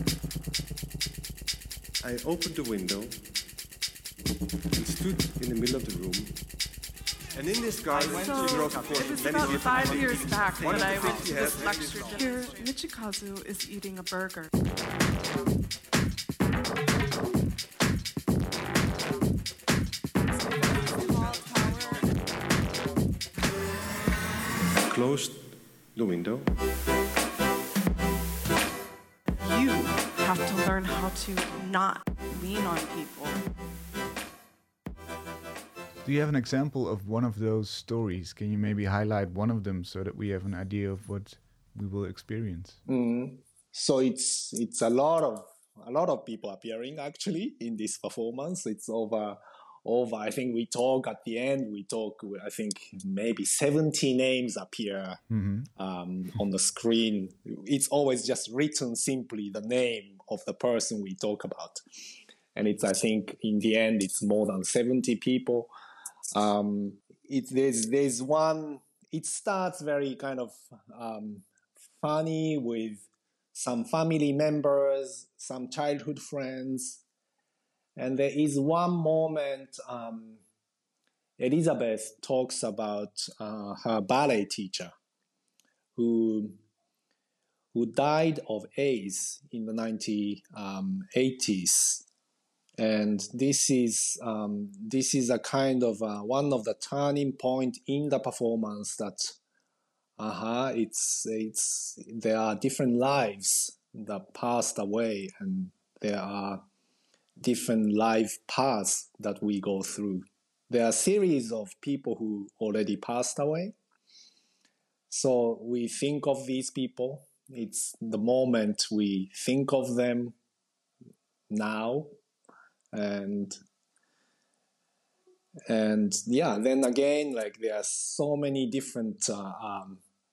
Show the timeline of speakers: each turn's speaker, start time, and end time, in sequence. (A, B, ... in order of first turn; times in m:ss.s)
0:02.0-0:03.2 A
0:04.7-0:06.4 A
0:07.4-0:08.2 A
0:08.2-0:14.5 B
0:24.9-0:26.5 A
0:29.4-0:33.4 B
0:36.0-0:42.8 C
0:42.8-0:55.2 D
0:55.3-0:55.7 C
0:55.7-1:01.8 D
1:02.5-1:05.7 D
1:06.3-1:11.4 D
1:12.0-1:17.0 D
1:18.0-1:20.4 D
1:21.4-1:24.9 D
1:25.9-1:26.6 D
1:27.7-1:32.0 D
1:32.8-1:39.4 D
1:40.2-1:46.6 D
1:47.4-1:53.7 D
1:55.1-2:00.3 D
2:01.5-2:02.1 D
2:02.9-2:03.6 D
2:05.7-2:10.0 D